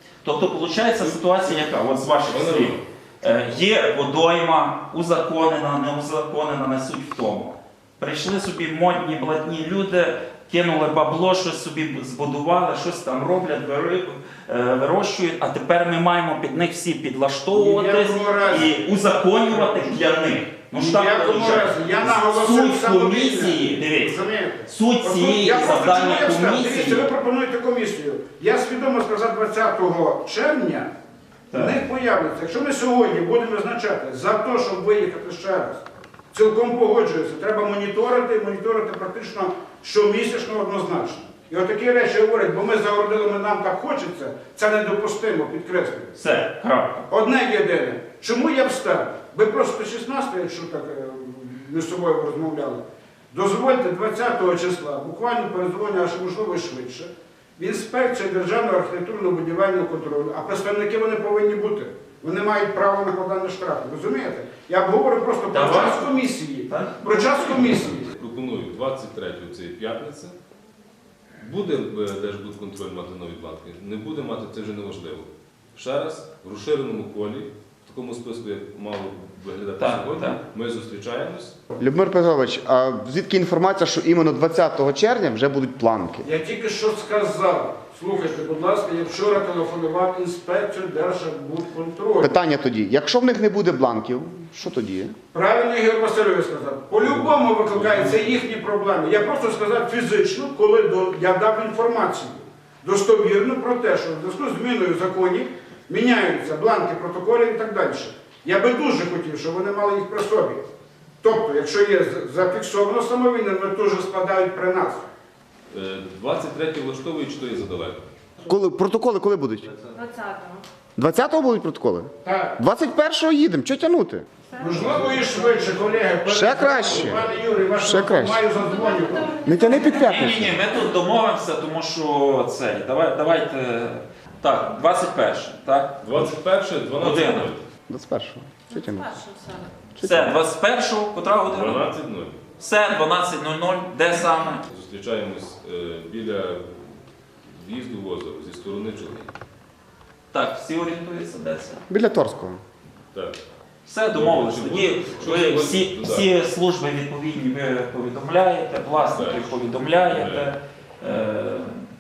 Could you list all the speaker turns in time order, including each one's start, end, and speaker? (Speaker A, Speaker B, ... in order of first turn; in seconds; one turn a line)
Speaker A: 0.2-27.0
Speaker B: 1.0-1.6
Speaker B: 2.3-2.9
Speaker C: 17.5-20.1
Speaker C: 20.7-30.9
Speaker A: 31.5-31.8
Speaker C: 31.5-46.2
Speaker A: 46.2-47.1
Speaker C: 47.1-68.2
Speaker A: 65.5-66.1
Speaker A: 66.7-67.8
Speaker B: 67.6-70.3
Speaker B: 71.4-81.6
Speaker A: 79.8-80.4
Speaker D: 81.8-86.3
Speaker C: 86.2-92.4
Speaker D: 92.2-95.2
Speaker C: 95.3-110.6
Speaker B: 97.0-98.4
Speaker C: 111.2-115.1
Speaker B: 115.7-118.1
Speaker D: 118.4-119.7
Speaker E: 119.9-120.7
Speaker D: 121.0-124.3
Speaker C: 122.2-122.6
Speaker E: 124.5-125.8
Speaker C: 124.6-129.8
Speaker D: 126.3-128.4
Speaker E: 128.4-130.3
Speaker D: 129.4-130.6
Speaker A: 129.9-136.0
Speaker B: 136.0-137.6
Speaker A: 137.0-137.5
Speaker D: 137.9-139.1
Speaker E: 138.7-139.9
Speaker D: 140.0-140.3
Speaker A: 140.0-141.9
Speaker B: 141.5-142.4
Speaker A: 142.6-144.6
Speaker B: 144.7-149.3
Speaker A: 150.3-151.8
Speaker D: 151.9-152.6
Speaker B: 153.1-153.4
Speaker A: 153.9-161.8
Speaker B: 154.1-156.3
Speaker B: 159.1-160.6